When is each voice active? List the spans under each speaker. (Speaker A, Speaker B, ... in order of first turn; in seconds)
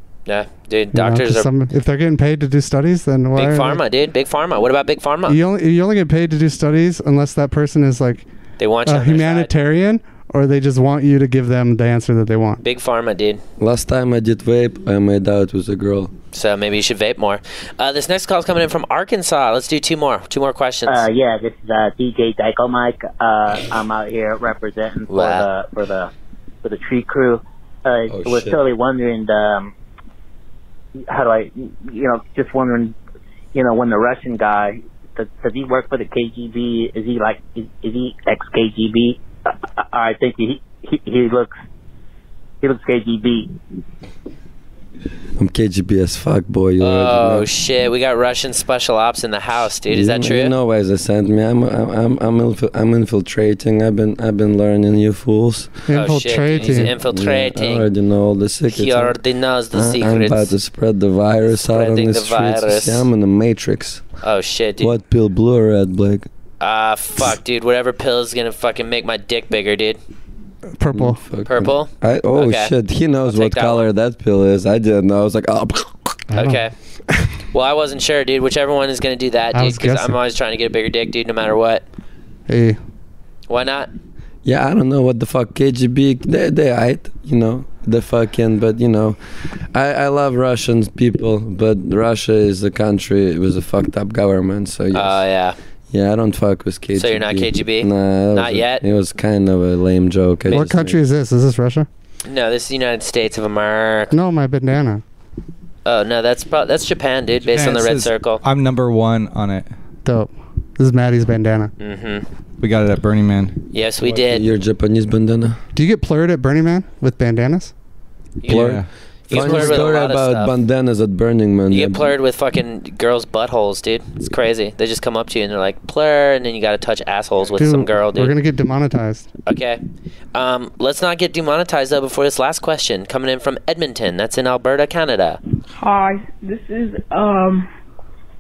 Speaker A: 0.3-1.5, 3.3-5.4, 8.6-9.5, 12.6-13.4, 16.3-21.1, 25.1-25.5, 46.8-50.5, 55.9-57.9, 58.7-60.5, 61.7-63.1, 64.2-65.0, 66.6-70.0, 71.5-72.7, 73.2-73.8, 76.3-76.7, 77.5-81.8, 83.5-83.9, 94.9-95.6, 97.0-98.8, 102.2-104.2, 105.8-108.4, 111.8-112.3, 113.7-114.5, 118.4-118.8, 119.3-120.5, 121.7-128.3, 129.5-129.8, 130.3-135.4
Speaker B: 0.9-3.8, 5.3-8.3, 8.9-12.6, 55.9-56.9, 70.8-71.2, 76.3-76.6, 79.5-80.2, 82.5-82.8, 100.5-101.9, 104.1-105.0, 110.0-111.7, 115.8-117.7, 127.6-129.3
Speaker C: 13.6-16.1, 28.1-28.6, 45.4-47.5, 49.9-55.8, 56.6-59.2, 59.7-64.0, 64.8-66.3, 70.9-76.2, 84.5-89.2, 89.7-95.2, 95.9-101.0, 114.0-115.6, 118.5-122.0
Speaker D: 20.9-26.1, 26.6-29.7, 31.1-33.0, 33.5-41.5, 42.6-43.5
Speaker E: 107.5-109.7, 112.6-113.6, 118.5-118.9
Speaker F: 135.7-137.7